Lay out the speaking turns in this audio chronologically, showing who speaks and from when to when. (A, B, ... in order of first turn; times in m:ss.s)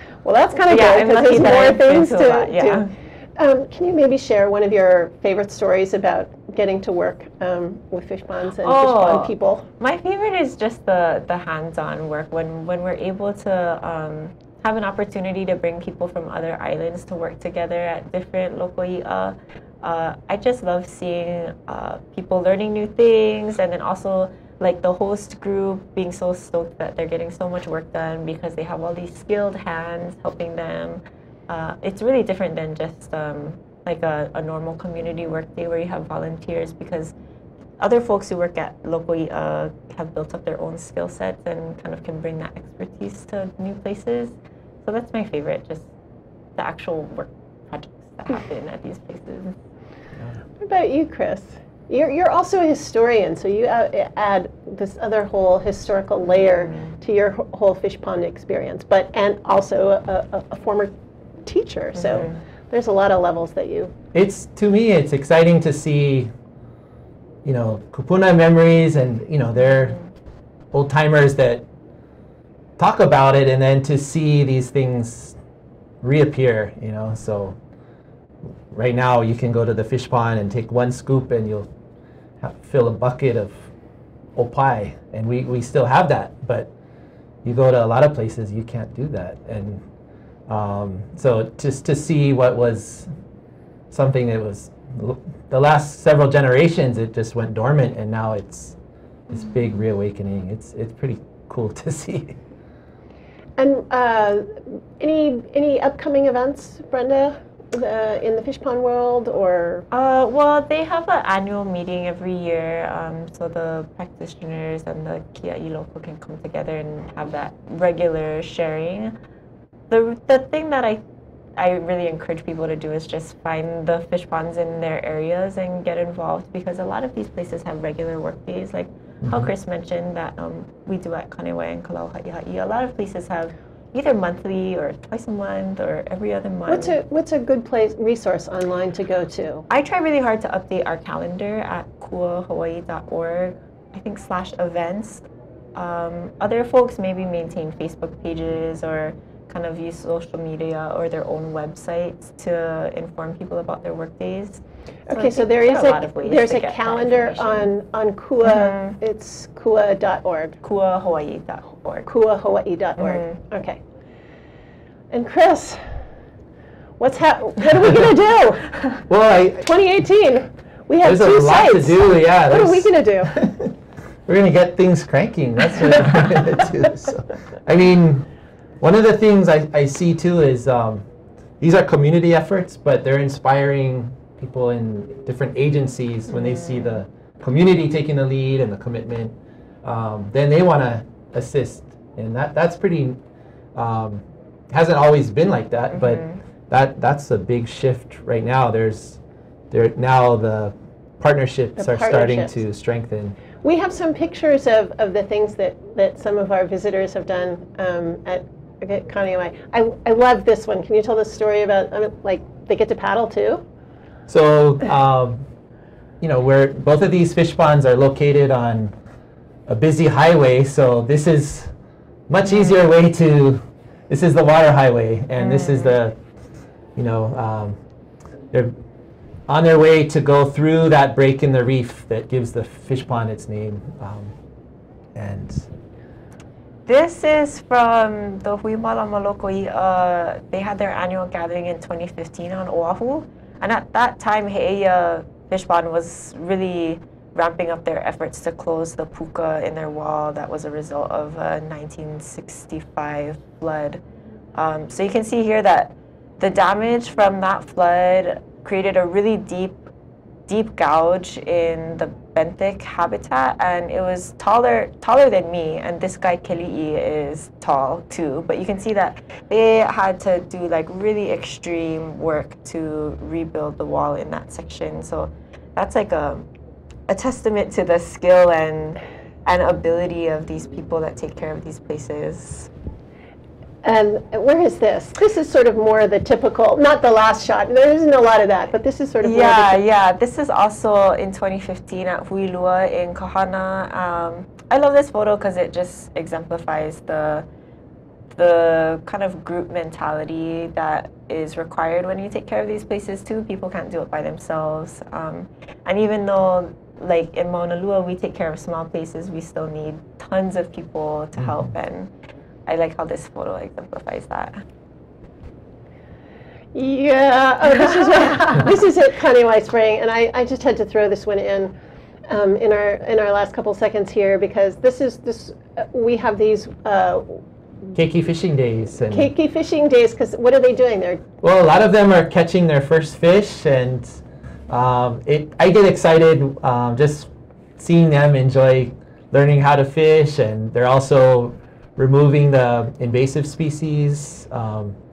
0:00.2-0:09.7 A
0:00.7-0:02.9 B
0:08.6-0:37.1 B
0:37.8-0:45.9 B
0:46.6-0:49.6 B
0:50.6-1:03.9 A
1:02.1-1:02.4 B
1:04.1-1:06.3 C
1:07.4-1:10.0 C
1:10.7-1:11.7 C
1:12.8-1:15.4 C
1:16.0-1:17.6 C
1:18.7-1:21.7 C
1:22.4-1:23.7 C
1:24.4-1:26.7 C
1:27.4-1:29.8 C
1:30.5-1:33.1 C
1:33.9-1:38.8 C
1:39.3-1:42.4 C
1:43.6-1:49.8 A
1:49.9-1:59.1 B
1:59.9-2:01.0 B
2:01.6-2:16.9 B
2:09.2-2:09.5 C
2:16.7-2:19.6 A
2:19.7-2:37.7 B
2:35.1-2:40.6 A
2:38.4-2:39.0 B
2:40.6-2:42.1 B
2:42.0-2:43.8 A
2:43.0-2:43.4 B
2:45.1-2:45.8 A
2:47.0-2:48.8 A
2:47.7-2:48.1 C
2:49.1-2:49.7 C
2:49.6-2:53.3 A
2:51.0-2:53.7 C
2:54.2-2:58.2 C
2:58.8-3:01.0 C
3:01.6-3:13.2 C
3:06.5-3:06.9 B
3:13.7-3:19.2 C
3:16.0-3:16.4 B
3:19.7-3:23.4 C
3:21.8-3:22.6 A
3:23.6-3:33.6 A
3:34.3-3:35.4 C
3:36.2-3:38.9 C
3:39.7-3:41.7 C
3:42.3-3:46.2 C
3:45.4-3:46.0 B
3:47.0-3:47.8 C
3:49.5-3:54.3 C
3:55.1-3:55.7 C
3:56.8-4:14.0 B
4:14.5-4:19.9 B
4:20.5-4:36.4 B
4:37.1-4:42.7 B
4:43.8-4:49.8 A
4:49.2-4:57.4 B
4:58.4-5:12.1 B
5:11.4-5:11.7 C
5:12.7-5:14.6 B
5:16.7-5:21.7 A
5:22.3-5:27.4 A
5:27.9-5:29.3 C
5:29.1-5:31.2 A
5:31.4-5:45.0 C